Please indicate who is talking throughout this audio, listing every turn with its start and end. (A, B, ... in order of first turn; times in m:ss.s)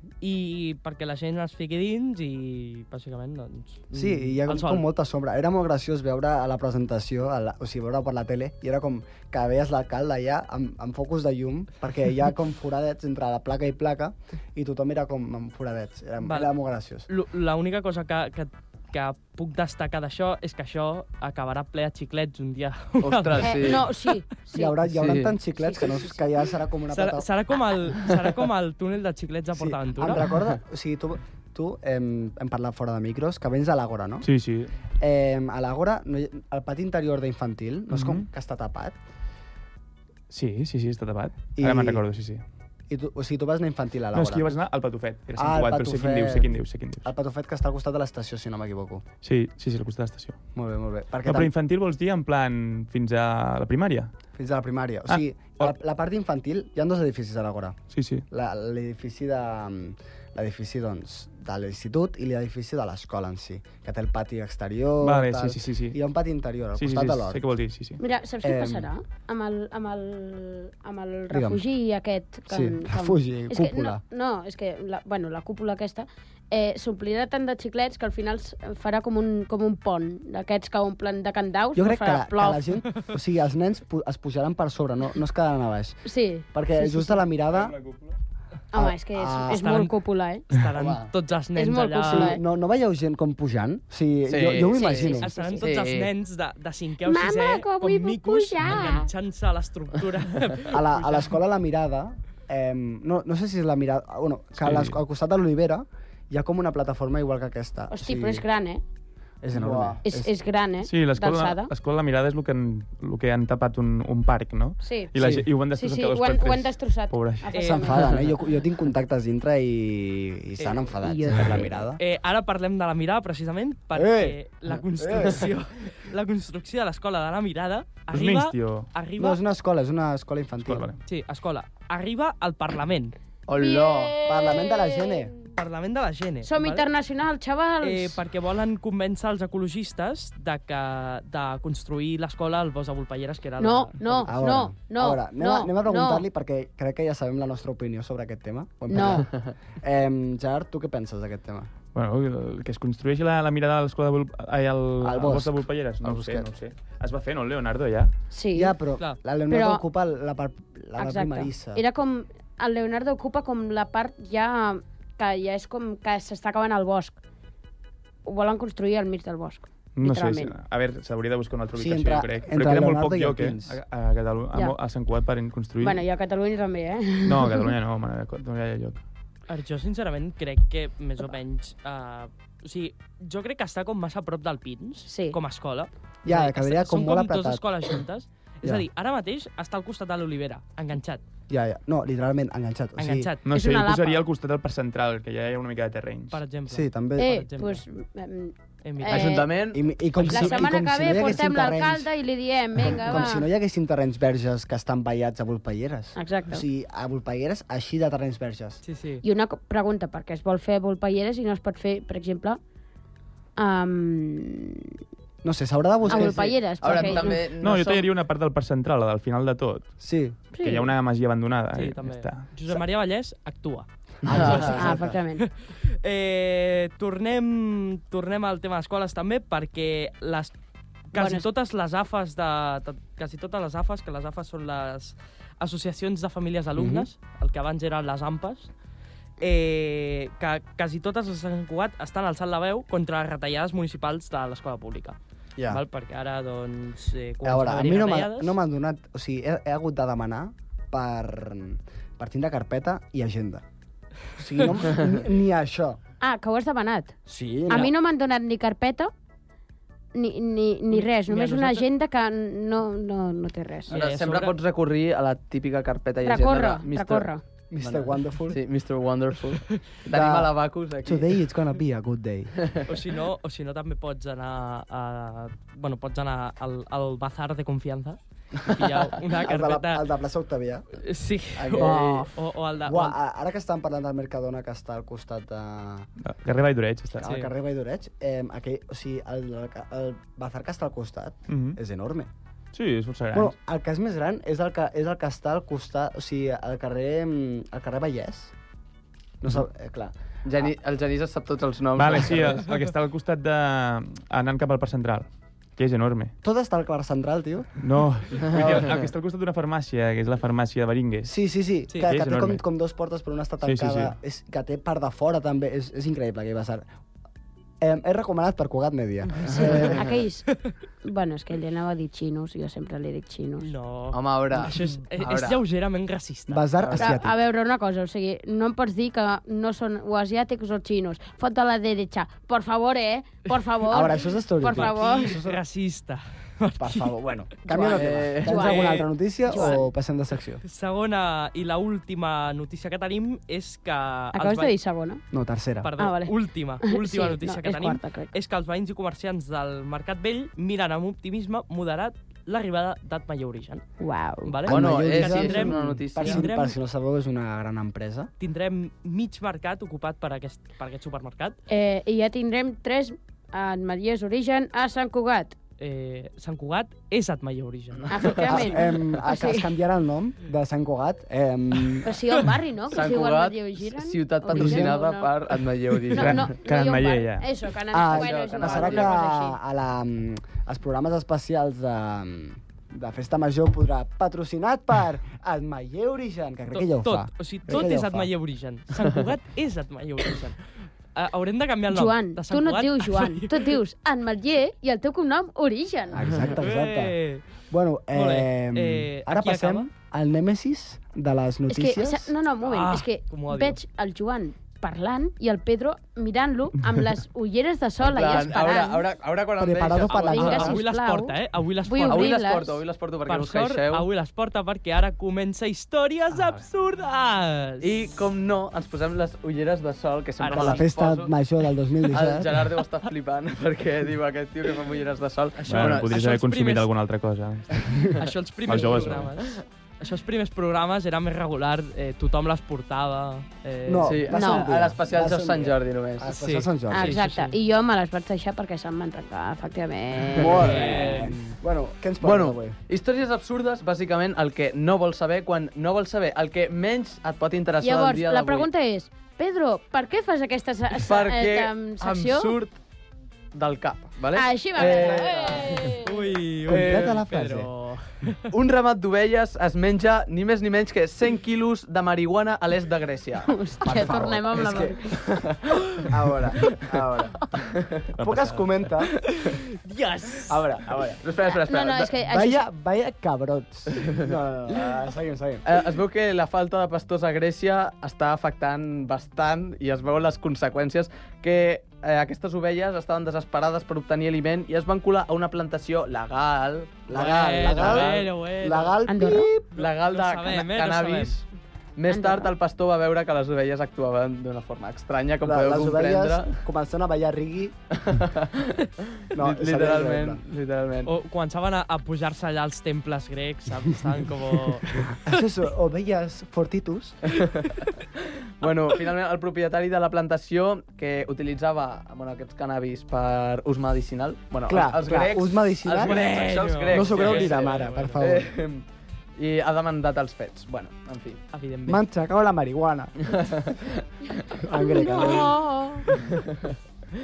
0:00.2-0:04.8 A
0:03.9-0:17.1 B
0:16.2-0:16.5 A
0:17.1-0:24.1 A
0:23.0-0:23.8 C
0:23.4-0:24.8 D
0:24.5-0:27.3 B
0:24.9-0:25.3 C
0:25.5-0:26.2 D
0:26.9-0:30.2 A
0:29.5-0:34.3 B
0:34.2-0:34.7 E
0:35.0-0:39.0 B
0:37.9-0:38.2 E
0:40.3-0:42.4 E
0:41.6-0:42.0 B
0:42.9-0:44.5 B
0:44.1-0:47.1 E
0:45.4-0:46.5 B
0:47.0-0:49.0 B
0:49.2-0:50.4 E
0:50.5-0:51.5 B
0:51.2-0:54.1 E
0:54.4-0:57.8 B
0:55.1-0:55.7 E
0:57.9-0:58.2 E
0:58.3-1:07.4 B
1:05.0-1:06.0 E
1:06.8-1:08.0 E
1:08.0-1:22.6 D
1:08.4-1:08.9 B
1:11.3-1:11.6 B
1:12.5-1:14.0 B
1:21.7-1:26.0 B
1:26.0-1:27.2 D
1:26.5-1:27.7 B
1:27.5-1:28.1 E
1:28.7-1:30.4 D
1:28.7-1:29.6 B
1:29.5-1:29.9 A
1:30.4-1:32.4 A
1:30.8-1:31.1 C
1:31.5-1:32.4 D
1:32.1-1:35.3 B
1:34.3-1:36.1 C
1:34.7-1:35.6 D
1:35.2-1:41.3 A
1:37.0-1:39.1 D
1:40.7-1:48.4 B
1:44.6-1:45.0 E
1:47.9-1:48.8 D
1:49.4-1:50.3 B
1:49.5-1:49.9 E
1:49.7-1:50.0 C
1:50.0-1:51.7 D
1:50.8-1:57.5 E
1:54.8-1:55.1 D
1:55.2-1:55.4 B
1:55.7-1:58.3 D
1:57.5-1:58.2 A
1:57.6-2:02.0 B
2:00.6-2:00.9 A
2:01.0-2:01.7 D
2:02.0-2:09.4 A
2:03.9-2:04.4 B
2:05.0-2:05.4 B
2:08.1-2:08.9 E
2:09.2-2:10.9 B
2:10.6-2:11.0 E
2:11.0-2:13.2 A
2:13.5-2:14.2 C
2:13.5-2:15.4 D
2:14.2-2:15.3 B
2:15.5-2:16.9 A
2:16.4-2:18.2 D
2:17.8-2:24.3 A
2:23.6-2:26.2 D
2:24.2-2:31.7 B
2:28.9-2:29.3 D
2:31.9-2:38.1 E
2:35.0-2:36.5 B
2:38.3-2:38.7 D
2:38.5-2:41.8 B
2:39.5-2:39.8 D
2:41.0-2:47.2 D
2:48.2-2:50.5 D
2:50.0-2:56.0 E
2:51.8-2:53.8 B
2:55.8-2:57.7 D
2:57.2-2:59.0 E
2:59.5-3:11.2 A
3:05.1-3:05.4 D
3:06.2-3:07.6 B
3:11.5-3:13.3 B
3:13.0-3:13.4 A
3:13.4-3:16.4 E
3:13.5-3:14.2 D
3:16.3-3:17.8 A
3:16.7-3:17.4 B
3:17.2-3:19.6 D
3:18.8-3:19.4 A
3:19.1-3:19.8 C
3:19.7-3:22.1 B
3:20.2-3:20.6 A
3:20.2-3:23.5 D
3:22.8-3:28.8 B
3:26.2-3:26.6 D
3:28.8-3:29.2 A
3:29.2-3:32.6 D
3:33.6-3:34.9 D
3:35.4-3:36.5 B
3:36.1-3:37.4 D
3:36.1-3:38.1 C
3:37.6-3:40.0 E
3:40.0-3:40.4 B
3:40.6-3:40.9 D
3:40.6-3:42.4 E
3:41.7-3:44.8 A
3:44.2-3:45.2 B
3:44.3-3:44.8 C
3:44.4-3:45.4 D
3:45.4-3:50.5 A
3:51.1-3:58.7 A
3:51.1-3:51.4 D
3:56.8-3:57.1 B
3:59.4-4:05.2 A
4:05.6-4:05.8 B
4:05.7-4:08.6 A
4:07.4-4:13.6 B
4:14.4-4:16.0 B
4:16.2-4:17.1 D
4:17.3-4:17.9 B
4:17.7-4:19.1 D
4:20.1-4:23.9 D
4:20.9-4:21.8 A
4:23.9-4:24.6 A
4:23.9-4:27.3 C
4:26.2-4:27.4 D
4:27.7-4:28.6 B
4:27.8-4:31.3 C
4:30.1-4:30.5 B
4:31.0-4:32.5 B
4:32.8-4:40.0 A
4:39.3-4:40.8 B
4:41.0-4:43.2 A
4:41.6-4:42.3 C
4:42.8-4:46.1 B
4:46.2-4:47.3 E
4:47.2-4:52.3 B
4:47.2-4:47.5 A
4:51.5-4:51.8 E
4:52.7-4:53.5 E
4:53.3-4:58.5 B
4:59.4-5:00.1 B
5:00.4-5:02.7 C
5:02.0-5:06.3 E
5:06.4-5:07.8 B
5:07.8-5:11.3 E
5:08.5-5:09.0 B
5:08.6-5:09.0 C
5:11.2-5:16.8 B
5:12.0-5:12.6 E
5:13.6-5:14.1 E
5:17.8-5:20.0 B
5:19.4-5:23.7 D
5:23.6-5:26.6 A
5:24.1-5:25.6 C
5:26.5-5:27.3 B
5:26.8-5:27.1 C
5:27.0-5:35.4 D
5:33.9-5:35.6 B
5:34.7-5:37.1 A
5:36.8-5:40.6 B
5:37.7-5:39.8 D
5:37.9-5:38.7 C
5:38.5-5:39.0 A
5:40.6-5:44.7 A
5:44.3-5:45.2 D
5:45.3-5:45.9 B
5:45.8-5:53.8 A
5:46.0-5:48.3 D
5:54.0-5:54.7 D
5:54.4-5:56.7 A
5:54.7-5:56.4 C
5:54.7-5:58.3 B
5:58.4-6:01.6 A
6:01.7-6:05.6 D
6:05.8-6:08.1 A
6:08.0-6:08.8 C
6:08.1-6:09.7 D
6:08.4-6:12.1 B
6:12.0-6:15.4 D
6:12.9-6:16.5 C
6:14.5-6:14.9 B
6:16.1-6:19.6 D
6:16.1-6:17.5 E
6:17.9-6:28.3 B
6:18.1-6:19.2 C
6:26.7-6:33.8 A
6:31.9-6:36.4 D
6:36.1-6:37.2 B
6:36.5-6:37.4 A
6:37.7-6:42.3 B
6:38.1-6:39.9 A
6:41.7-6:49.1 D
6:42.6-6:43.8 A
6:48.0-6:50.7 C
6:49.6-6:50.8 B
6:50.1-6:52.8 D
6:50.3-6:52.4 A
6:52.0-6:54.1 C
6:53.2-6:57.9 A
6:57.8-7:01.3 C
7:00.4-7:00.9 A
7:00.6-7:02.6 B
7:02.1-7:06.1 C
7:05.6-7:06.9 A
7:05.7-7:08.0 E
7:08.1-7:14.2 A
7:08.7-7:09.3 E
7:13.8-7:17.2 B
7:14.0-7:16.4 C
7:14.3-7:14.7 D
7:16.3-7:17.6 A
7:16.9-7:21.0 D
7:20.4-7:22.8 B
7:20.5-7:21.4 A
7:22.2-7:28.7 C
7:27.8-7:32.6 D
7:31.0-7:32.8 C
7:33.5-7:35.8 C
7:34.3-7:36.2 D
7:34.8-7:38.4 A
7:36.7-7:37.7 B
7:36.7-7:37.1 C
7:38.5-7:43.5 C
7:43.5-7:45.1 D
7:43.8-7:44.9 B
7:44.6-7:45.6 C
7:46.1-7:47.4 B
7:47.7-7:48.0 C
7:48.2-7:48.8 E
7:48.2-7:49.1 B
7:49.4-7:50.6 A
7:50.5-7:51.2 B
7:51.2-7:52.1 C
7:51.5-7:52.6 D
7:52.2-7:55.6 B
7:55.6-8:08.3 C
8:07.1-8:09.7 B
8:07.1-8:09.0 A
8:09.0-8:09.5 D
8:09.7-8:11.4 C
8:09.8-8:11.4 A
8:12.0-8:16.6 C
8:12.1-8:12.5 D
8:15.4-8:17.8 B
8:17.9-8:21.1 C
8:19.3-8:20.4 B
8:21.0-8:25.1 A
8:25.1-8:27.2 B
8:27.3-8:27.7 C
8:28.6-8:38.8 C
8:34.7-8:36.2 B
8:35.9-8:38.2 A
8:36.9-8:38.5 B
8:39.4-8:41.4 C
8:41.5-8:42.0 A
8:41.8-8:43.4 B
8:43.2-8:44.0 C
8:44.5-8:45.6 B
8:44.7-8:46.1 D
8:46.1-8:46.7 C